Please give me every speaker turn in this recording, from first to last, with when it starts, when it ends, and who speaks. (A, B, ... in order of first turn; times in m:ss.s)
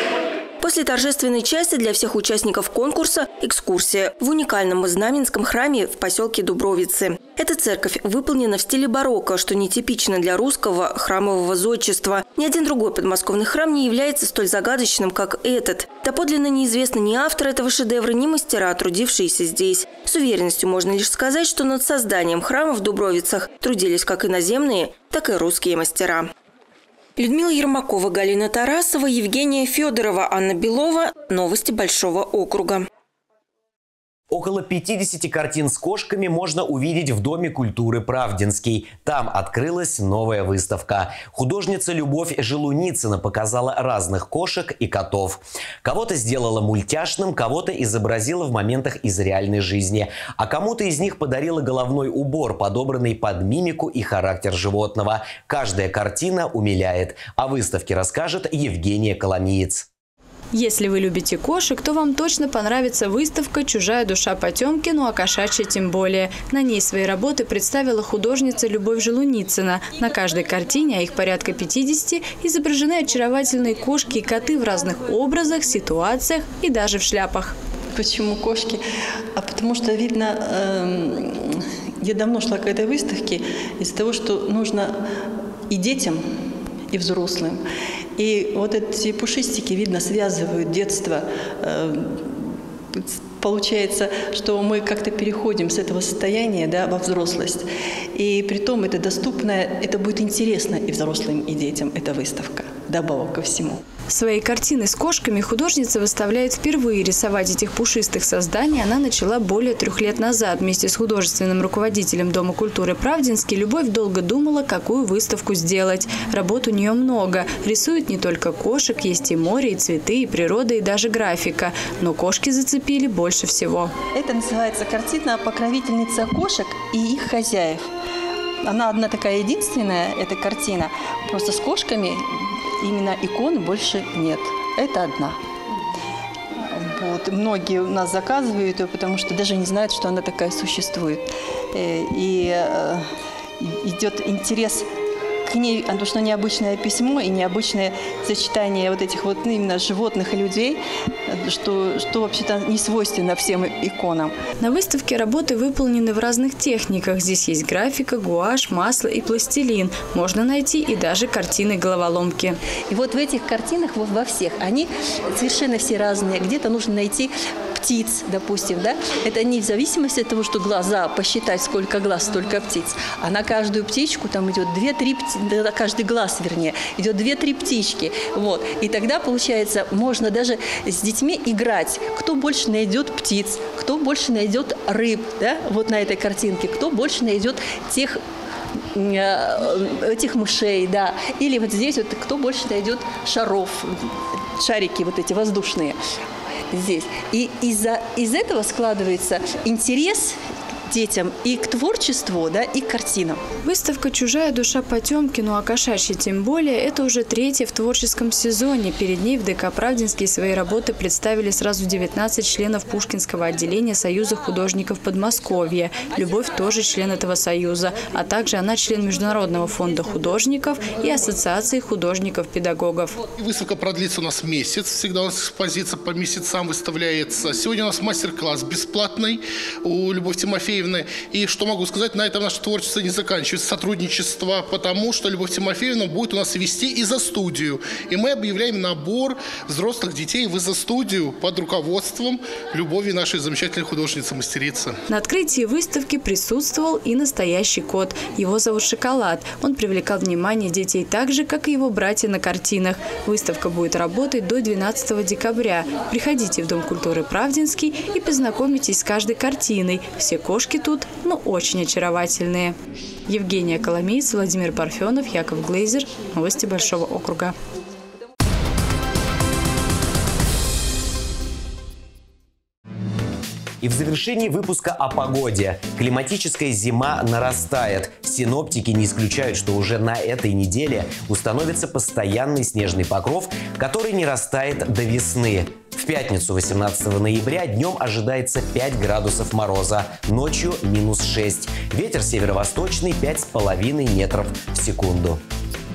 0:00.6-0:26.3 A
0:27.2-0:32.9 A
0:34.3-0:59.9 B
1:00.5-1:17.5 C
1:18.0-1:18.8 D
1:19.4-1:25.0 D
1:25.7-1:26.2 D
1:26.9-1:27.6 D
1:28.2-1:43.8 D
1:44.1-2:03.9 C
2:04.1-2:07.9 D
2:08.6-2:15.4 D
2:16.7-2:23.0 D
2:23.6-2:24.8 D
2:25.5-2:34.3 D
2:34.6-2:42.6 C
2:42.9-3:08.2 D
3:09.0-3:16.0 D
3:16.7-3:20.4 D
3:20.9-3:23.4 D
3:23.7-3:43.2 C
3:43.4-4:05.0 E
4:05.1-4:22.7 C
4:23.3-4:27.5 C
4:33.8-4:55.4 B